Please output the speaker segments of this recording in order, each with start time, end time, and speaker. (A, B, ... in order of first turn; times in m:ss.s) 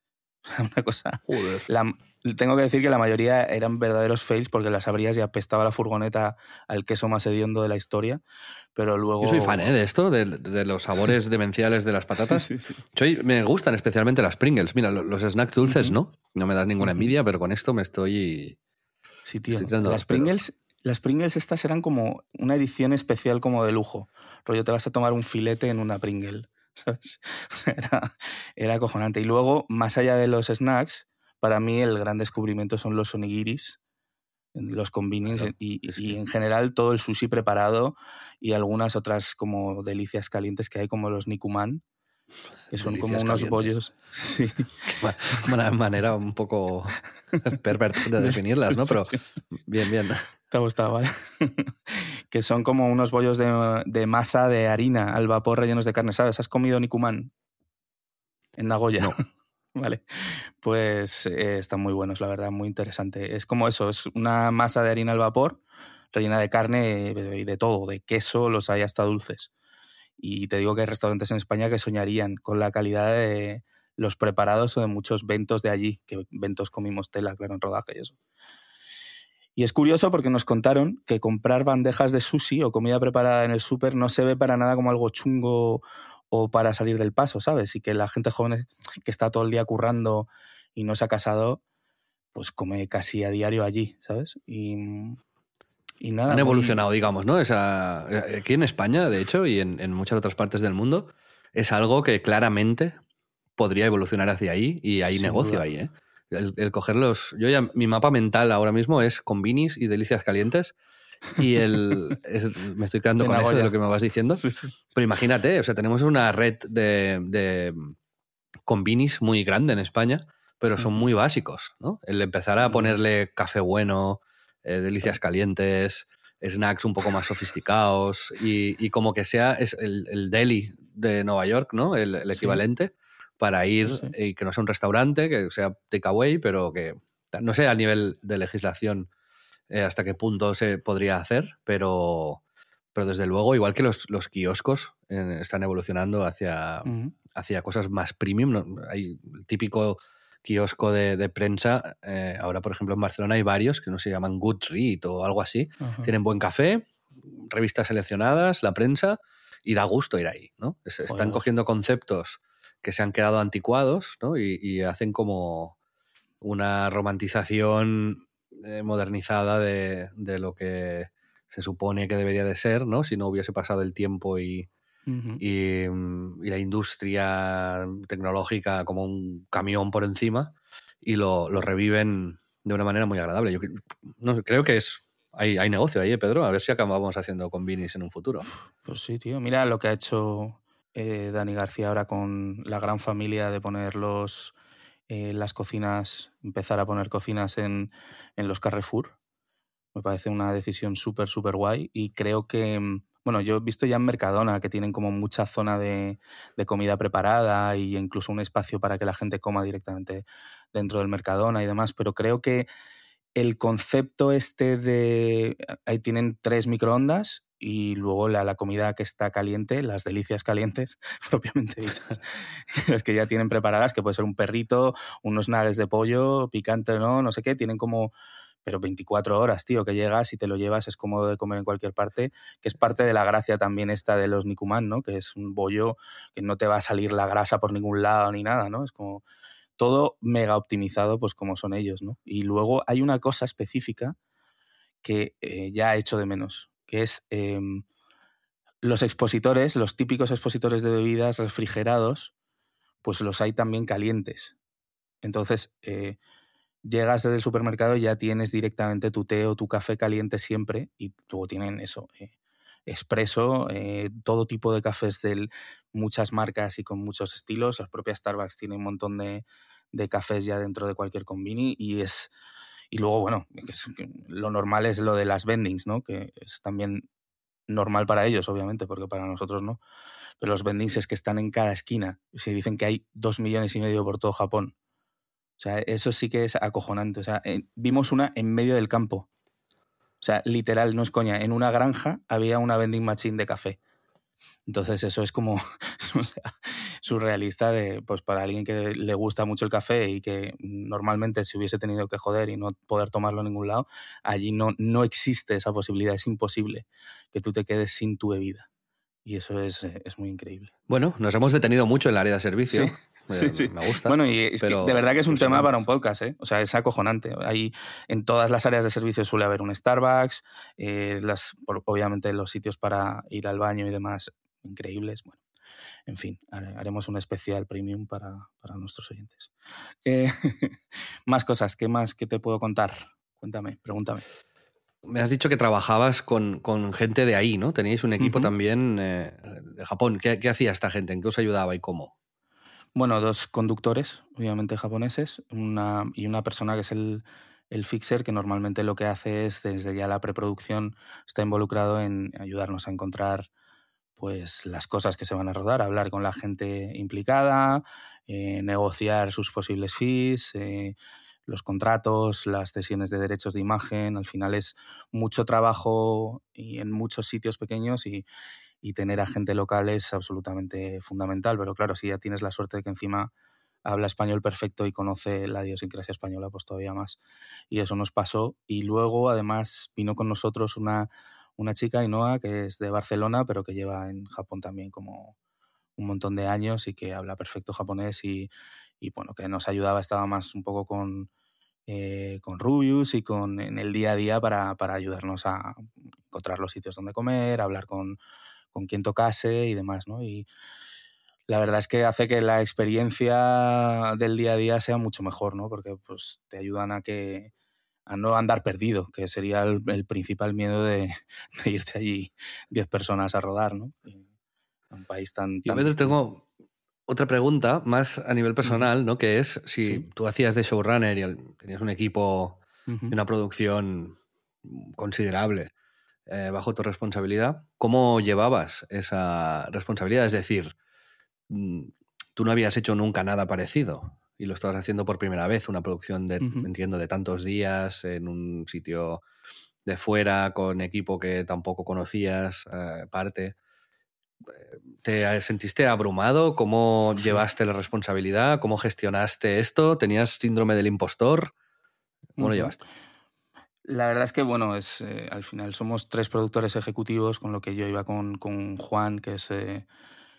0:00.4-0:08.2 A
0:01.3-0:01.7 B
0:08.8-0:09.7 A
0:09.2-0:18.6 B
0:12.3-0:12.8 A
0:15.6-0:16.0 A
0:16.8-0:17.1 A
0:19.2-0:33.8 A
0:19.5-0:20.3 B
0:34.5-0:41.8 A
0:35.2-0:36.2 B
0:42.7-0:43.8 B
0:42.7-0:45.4 A
0:44.9-0:50.2 B
0:48.2-0:49.3 A
0:50.5-0:57.3 A
0:58.6-0:59.2 A
0:59.7-1:00.0 A
1:00.6-1:05.6 A
1:06.1-1:09.5 A
1:10.2-1:18.2 A
1:19.6-1:31.6 A
1:32.3-1:35.2 A
1:36.0-1:36.8 A
1:36.3-1:43.0 B
1:43.6-1:50.7 B
1:45.1-1:45.6 A
1:51.4-1:57.9 B
1:53.2-1:53.7 A
1:54.4-1:54.7 A
1:58.7-2:19.1 B
2:00.8-2:01.0 A
2:02.6-2:03.0 A
2:12.3-2:12.6 A
2:13.9-2:14.1 A
2:19.7-2:22.4 B
2:22.9-2:45.7 B
2:26.8-2:27.1 A
2:35.8-2:36.1 A
2:41.1-2:41.4 A
2:46.4-2:54.7 B
2:55.1-2:55.4 A
2:55.4-3:08.5 B
3:08.8-3:14.5 A
3:15.1-3:19.1 A
3:19.9-3:32.7 A
3:33.4-3:48.1 A
3:48.6-3:59.2 A
3:59.8-4:04.2 A
4:05.0-4:07.8 A
4:08.8-4:12.3 A
4:13.0-4:14.5 A
4:15.2-4:16.2 A
4:16.8-4:22.3 A
4:22.9-4:32.3 A
4:32.9-4:37.0 A
4:37.7-4:39.8 A
4:40.4-4:44.7 A
4:45.6-4:49.3 A
4:50.2-4:53.8 A
4:54.7-4:56.5 A
4:57.0-5:08.7 A
5:09.2-5:10.7 A
5:10.9-5:15.7 B
5:12.7-5:25.4 A
5:26.1-5:29.5 A
5:30.0-5:34.2 A
5:35.0-5:42.1 B
5:38.2-5:38.5 A
5:42.9-5:53.5 A
5:54.2-6:01.0 A
6:01.5-6:08.2 A
6:08.8-6:13.3 A
6:13.8-6:17.2 A
6:17.7-6:25.3 A
6:26.0-6:28.5 A
6:29.0-6:31.3 A
6:31.9-6:38.2 A
6:38.7-6:40.5 A
6:41.5-6:47.5 A
6:48.1-6:54.2 A
6:54.9-6:56.2 A
6:55.6-6:56.4 B
6:57.1-7:05.7 B
7:02.9-7:03.2 A
7:06.3-7:10.7 B
7:11.5-7:19.2 B
7:16.4-7:16.7 A
7:19.8-7:23.5 B
7:24.5-7:31.5 B
7:32.4-7:32.7 A
7:32.4-7:32.8 B
7:33.8-7:39.8 A